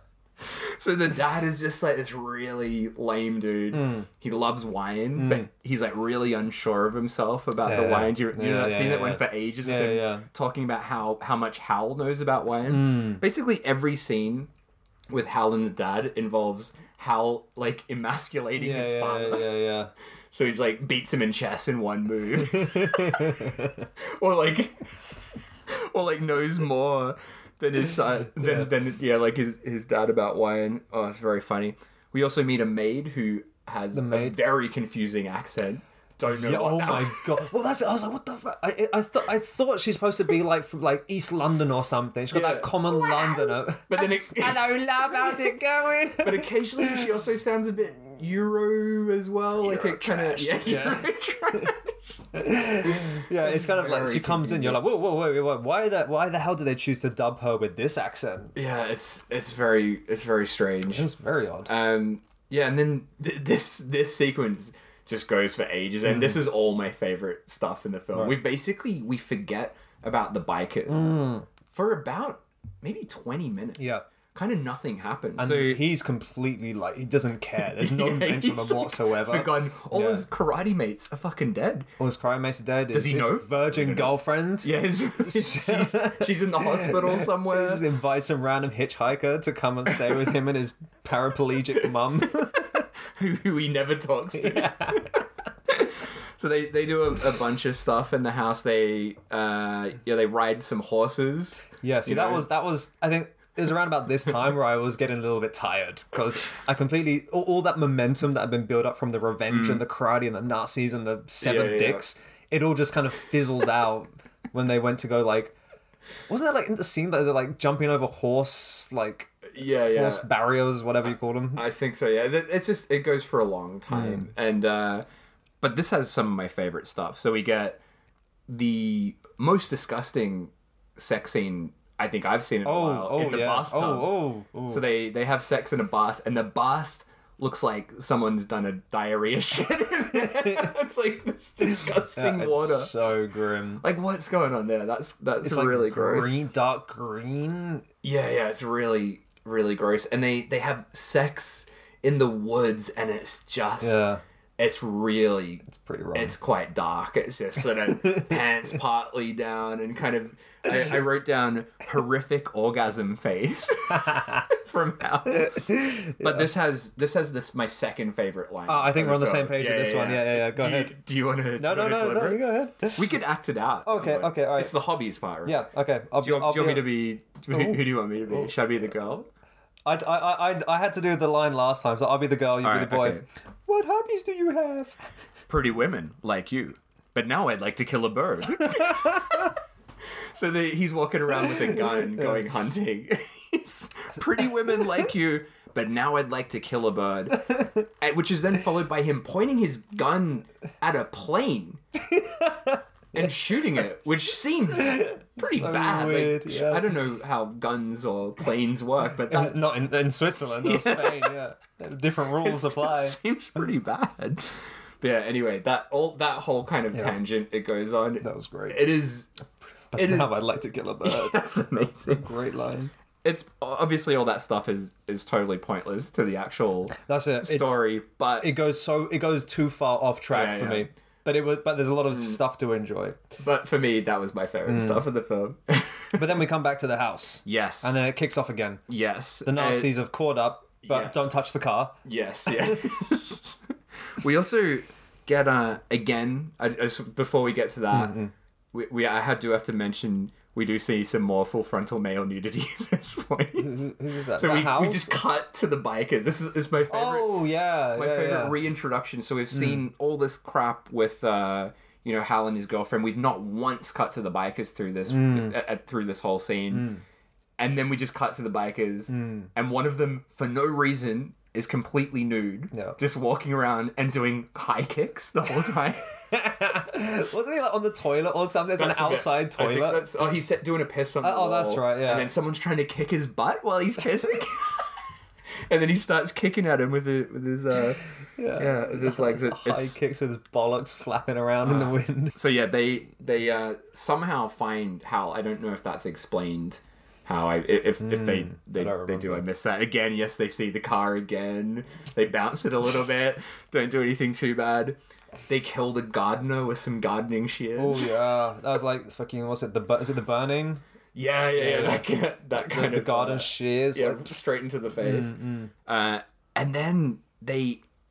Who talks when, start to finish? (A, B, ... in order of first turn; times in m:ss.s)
0:00.4-0:14.5 A
0:03.7-0:04.1 B
0:05.2-0:05.5 B
0:07.6-0:10.3 B
0:12.7-0:13.2 B
0:15.1-0:19.5 A
0:18.6-0:19.9 B
0:20.3-0:24.8 A
0:22.4-0:23.9 B
0:25.7-0:37.5 A
0:28.4-0:28.7 B
0:33.9-0:34.4 B
0:36.4-0:47.0 B
0:42.3-0:45.5 A
0:46.2-0:51.9 A
0:49.6-0:51.7 B
0:52.3-0:58.6 B
0:52.8-0:54.8 A
0:58.6-1:01.1 A
1:00.9-1:01.7 B
1:01.7-1:11.2 A
1:06.1-1:06.4 B
1:10.9-1:11.5 B
1:11.7-1:15.8 A
1:13.8-1:14.0 B
1:15.4-1:20.2 B
1:17.6-1:21.9 A
1:22.0-1:32.8 B
1:22.9-1:27.8 A
1:32.4-1:42.5 A
1:34.4-1:35.2 B
1:41.8-1:55.6 B
1:49.5-1:49.8 A
1:51.4-1:52.1 A
1:56.3-2:01.6 B
1:59.5-2:00.3 A
2:01.1-2:05.0 A
2:03.9-2:04.3 B
2:05.6-2:07.8 A
2:08.5-2:14.1 A
2:12.6-2:14.8 B
2:14.7-2:22.9 A
2:20.1-2:20.7 B
2:21.7-2:23.8 B
2:23.8-2:26.3 A
2:25.4-2:27.9 B
2:28.0-2:34.1 A
2:33.8-2:34.2 B
2:34.6-2:55.7 A
2:35.7-2:36.4 B
2:38.0-2:38.4 B
2:44.0-2:44.5 B
2:45.3-2:46.5 B
2:48.7-2:51.0 B
2:51.6-2:53.1 B
2:53.8-2:54.8 B
2:55.4-2:56.9 B
2:56.2-2:59.3 A
2:57.5-2:58.5 B
2:59.9-3:05.0 B
3:02.6-3:03.2 A
3:05.5-3:09.5 A
3:08.8-3:09.5 B
3:10.3-3:21.8 A
3:17.4-3:17.8 B
3:22.0-3:23.3 B
3:23.1-3:29.6 A
3:24.7-3:26.9 B
3:29.3-3:33.2 B
3:30.6-3:31.4 A
3:32.4-3:39.3 A
3:38.2-3:38.9 B
3:39.9-3:41.4 B
3:40.0-3:40.4 A
3:41.0-3:42.3 A
3:42.1-3:42.9 B
3:43.2-3:48.5 A
3:47.0-3:47.8 B
3:48.4-3:53.2 B
3:50.3-3:50.9 A
3:52.1-3:52.4 A
3:53.4-3:56.2 A
3:54.7-3:55.0 B
3:56.1-3:58.8 B
3:57.4-3:58.0 A
3:58.9-3:59.9 A
3:59.4-4:02.9 B
4:00.8-4:01.2 A
4:02.0-4:08.2 A
4:07.9-4:08.3 B
4:08.7-4:13.8 A
4:13.6-4:15.2 B
4:14.3-4:26.9 A
4:16.9-4:18.6 B
4:19.5-4:19.8 B
4:25.1-4:25.6 B
4:26.7-4:27.0 B
4:27.6-4:36.1 A
4:29.1-4:29.5 B
4:32.7-4:33.0 B
4:36.3-4:40.1 B
4:38.8-4:44.9 A
4:41.2-4:42.3 B
4:45.7-4:48.0 A
4:48.4-4:52.4 B
4:48.6-4:50.0 A
4:51.6-5:08.1 A
4:58.0-4:59.4 B
5:07.8-5:10.8 B
5:11.2-5:17.8 A
5:11.6-5:14.3 B
5:15.0-5:15.7 B